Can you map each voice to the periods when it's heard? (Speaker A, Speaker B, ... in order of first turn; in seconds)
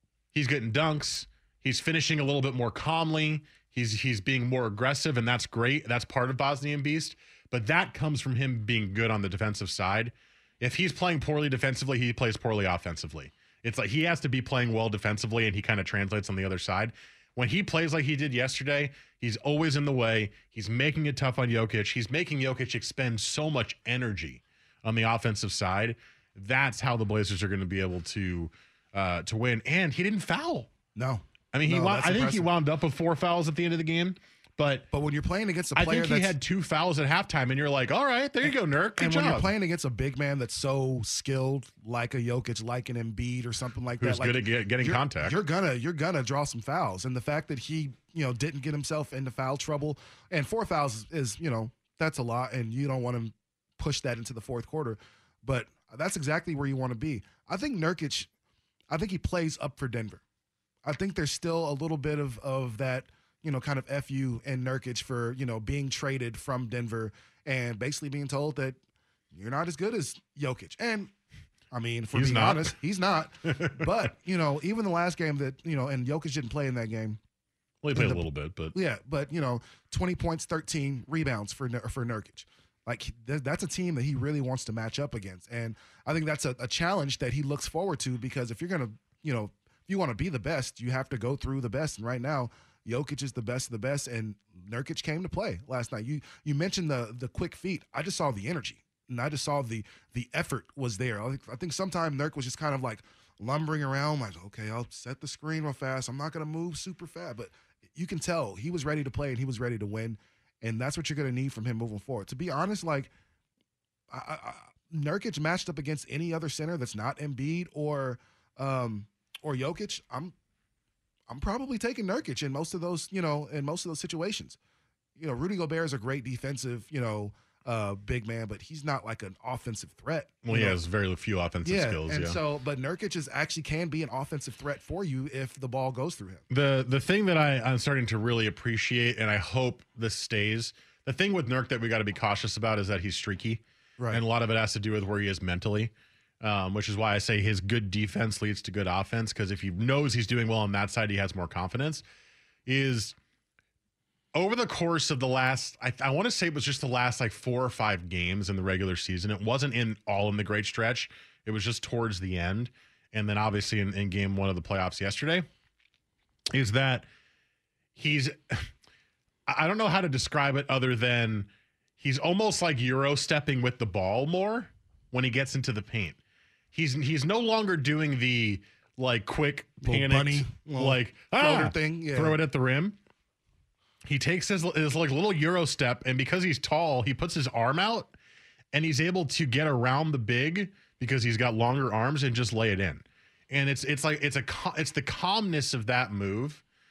Speaker A: 0.3-30.7, 31.5-34.9, 35.8-39.5, 44.0-45.4, 72.1-72.7, 73.5-73.8, 77.8-78.7, 130.4-132.4, 136.5-152.0, 152.7-153.1, 154.3-165.5, 166.5-167.1, 167.9-168.7, 169.5-176.2, 176.7-183.0, 184.0-188.1, 188.7-196.6
Speaker B: 30.9-32.5, 34.9-36.3, 38.4-58.3, 58.9-60.2, 60.8-68.8, 69.3-71.1, 71.7-77.2, 77.9-113.1, 114.1-120.3, 121.3-124.6, 125.2-130.8, 131.6-136.4, 179.8-182.4